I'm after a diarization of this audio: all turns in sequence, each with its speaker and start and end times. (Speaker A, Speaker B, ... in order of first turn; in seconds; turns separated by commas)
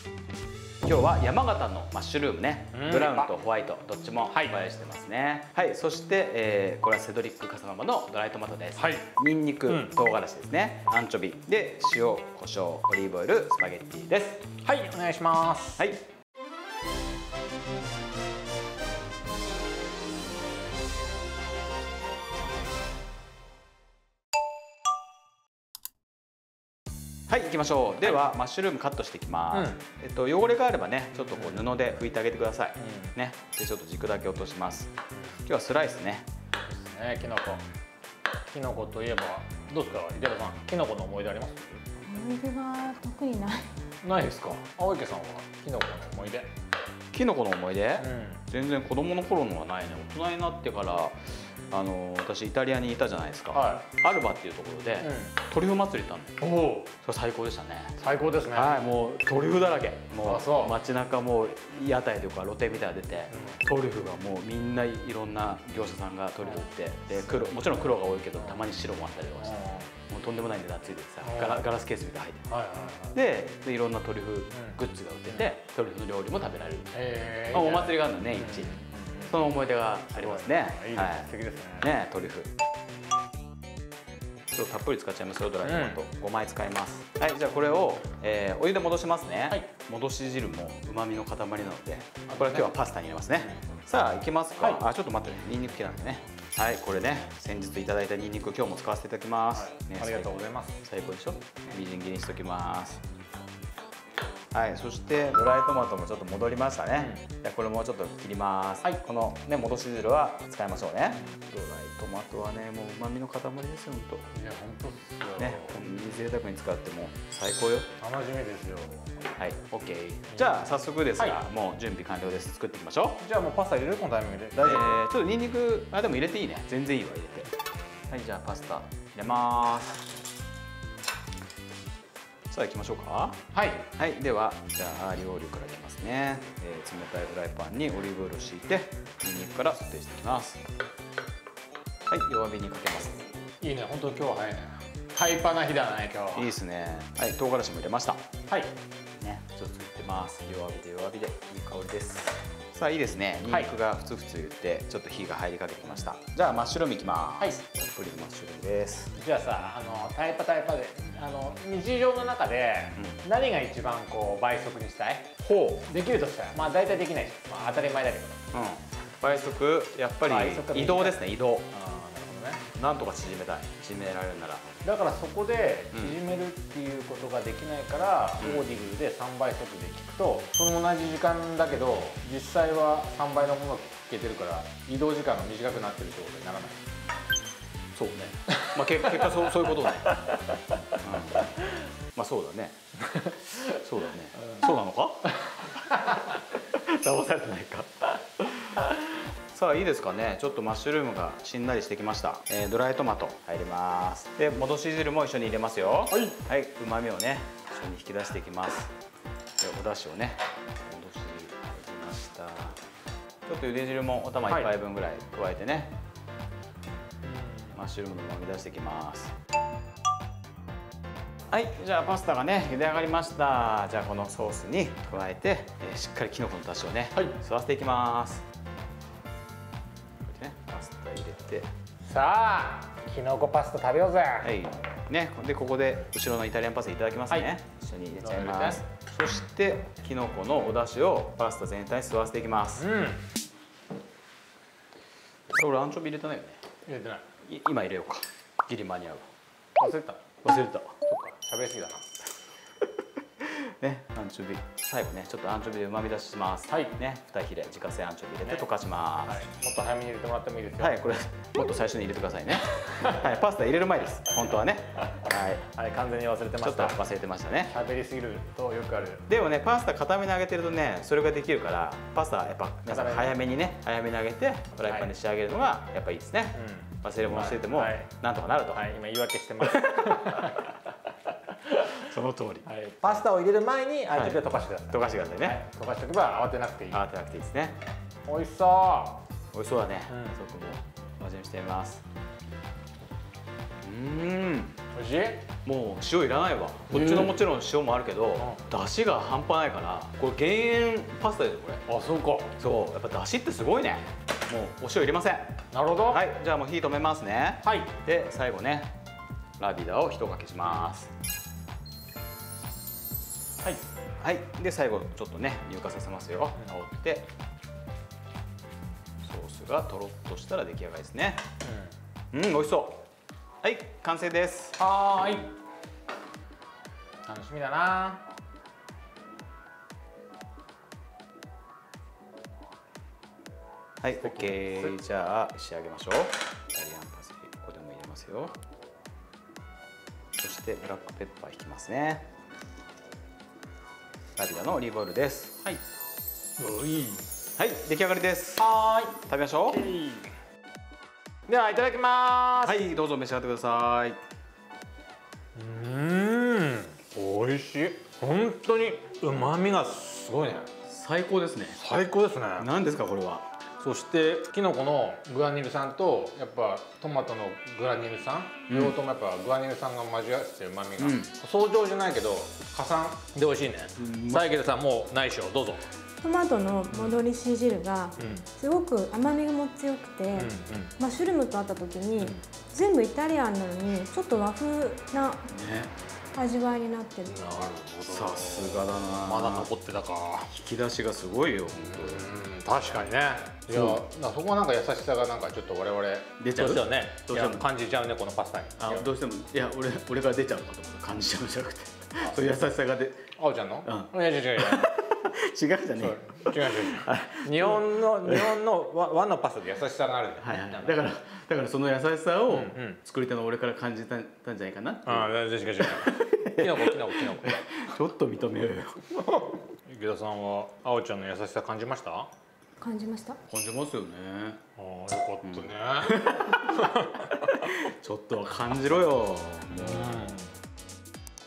Speaker A: 0.8-14.4, Speaker B: 2.7-3.3, Speaker B: 4.3-4.6, Speaker B: 8.8-9.1, Speaker B: 9.7-9.9, Speaker B: 14.6-15.8, Speaker A: 15.8-16.0, Speaker A: 27.3-34.9, Speaker B: 29.5-29.8, Speaker B: 31.4-31.6, Speaker B: 32.8-33.1, Speaker A: 35.5-36.3, Speaker B: 36.7-37.6, Speaker B: 38.5-41.9, Speaker C: 42.1-43.7, Speaker B: 44.0-46.5, Speaker A: 47.1-56.4, Speaker B: 48.0-48.4, Speaker B: 53.5-53.9, Speaker B: 55.0-55.4, Speaker B: 56.4-56.9, Speaker A: 57.0-58.0, Speaker B: 58.0-58.8, Speaker A: 58.5-69.6, Speaker B: 60.2-60.8, Speaker B: 63.3-63.6, Speaker B: 66.4-67.8, Speaker B: 69.4-69.9, Speaker A: 70.1-72.5, Speaker B: 71.2-71.7, Speaker B: 72.5-73.2, Speaker A: 73.1-77.0, Speaker B: 74.5-74.8, Speaker B: 76.9-79.4, Speaker A: 77.5-78.7, Speaker A: 79.3-81.3, Speaker B: 80.1-81.9, Speaker A: 81.8-82.5, Speaker A: 84.5-103.0, Speaker B: 85.6-86.0, Speaker B: 92.3-92.7, Speaker B: 99.5-100.8, Speaker A: 104.5-114.3, Speaker B: 106.9-107.2, Speaker B: 114.3-116.1, Speaker A: 115.4-117.9, Speaker B: 118.0-119.1, Speaker A: 119.4-123.2, Speaker B: 120.3-121.4, Speaker B: 123.2-125.0, Speaker A: 124.5-127.5, Speaker A: 128.1-130.0, Speaker A: 132.5-133.4, Speaker B: 133.5-133.8, Speaker A: 133.9-140.6, Speaker A: 142.1-143.2, Speaker B: 143.6-146.5, Speaker A: 146.3-148.2, Speaker A: 149.2-159.1, Speaker B: 159.2-168.4, Speaker A: 163.0-163.2, Speaker A: 168.5-171.7, Speaker B: 170.2-172.7, Speaker A: 172.7-174.8, Speaker B: 174.8-186.8, Speaker A: 175.9-176.2, Speaker A: 178.4-178.7, Speaker A: 187.9-190.1, Speaker B: 188.6-189.3, Speaker A: 191.0-191.6, Speaker A: 192.1-192.8, Speaker A: 193.6-195.7, Speaker A: 196.5-198.9, Speaker A: 199.5-208.9, Speaker A: 209.6-212.8, Speaker A: 213.5-215.9, Speaker B: 214.5-214.7, Speaker B: 217.2-217.8, Speaker A: 217.7-219.3, Speaker A: 221.5-228.4, Speaker A: 230.2-231.7, Speaker B: 232.0-234.5, Speaker A: 234.4-242.8, Speaker B: 238.2-238.8, Speaker B: 242.8-243.2, Speaker A: 245.5-246.6, Speaker B: 246.9-247.2, Speaker A: 247.4-249.3, Speaker B: 249.8-250.3, Speaker A: 250.4-251.1, Speaker B: 251.1-252.1, Speaker A: 253.4-259.5, Speaker B: 256.7-256.9, Speaker B: 259.2-261.0, Speaker A: 260.8-265.6, Speaker B: 262.9-263.2, Speaker B: 265.7-267.0, Speaker A: 266.6-267.7, Speaker B: 267.6-269.3, Speaker A: 269.3-278.9, Speaker B: 272.9-273.4, Speaker B: 276.6-278.1, Speaker B: 278.7-280.7, Speaker A: 279.6-280.6, Speaker A: 281.9-283.2, Speaker B: 282.7-287.0, Speaker A: 284.1-285.6, Speaker A: 286.9-287.8, Speaker B: 288.3-289.2, Speaker A: 289.5-292.0, Speaker B: 290.1-290.4, Speaker A: 293.8-294.8, Speaker B: 294.9-295.4, Speaker A: 295.6-301.8, Speaker B: 296.9-297.3, Speaker B: 301.9-302.5, Speaker A: 302.6-305.6, Speaker B: 305.7-306.2, Speaker A: 306.1-308.9, Speaker B: 307.6-307.9, Speaker A: 309.6-311.1, Speaker A: 314.2-317.3, Speaker A: 319.2-321.4, Speaker B: 321.6-321.9, Speaker A: 322.3-323.1, Speaker A: 323.6-324.8, Speaker B: 324.8-325.5, Speaker B: 327.2-328.2, Speaker A: 334.0-338.6, Speaker B: 334.2-334.9, Speaker A: 340.4-342.2, Speaker A: 344.4-345.7, Speaker B: 346.6-347.3, Speaker A: 347.6-348.7, Speaker B: 348.6-349.2, Speaker A: 349.3-349.9, Speaker B: 349.7-350.3, Speaker B: 351.5-352.9, Speaker A: 352.6-354.2, Speaker B: 355.6-360.7, Speaker A: 360.9-361.8, Speaker B: 361.8-362.7, Speaker A: 362.6-363.4, Speaker B: 363.8-375.8, Speaker A: 368.7-369.0, Speaker A: 371.0-371.3, Speaker A: 374.0-374.6, Speaker C: 376.2-385.5, Speaker B: 376.9-377.2, Speaker B: 378.2-378.5, Speaker B: 380.3-381.0, Speaker A: 385.5-385.9, Speaker C: 386.3-387.5, Speaker B: 387.3-390.5, Speaker A: 387.9-389.7, Speaker A: 390.5-392.3, Speaker B: 391.8-399.1, Speaker A: 393.7-394.0, Speaker A: 396.4-397.7, Speaker A: 398.8-403.3, Speaker B: 403.4-404.9, Speaker A: 403.8-408.6, Speaker B: 406.0-411.0, Speaker A: 410.4-419.1, Speaker B: 412.5-413.0, Speaker B: 415.1-417.6, Speaker B: 419.7-422.3, Speaker C: 422.8-423.4, Speaker A: 423.5-424.6, Speaker B: 424.8-427.5, Speaker A: 425.4-430.4, Speaker B: 429.7-430.5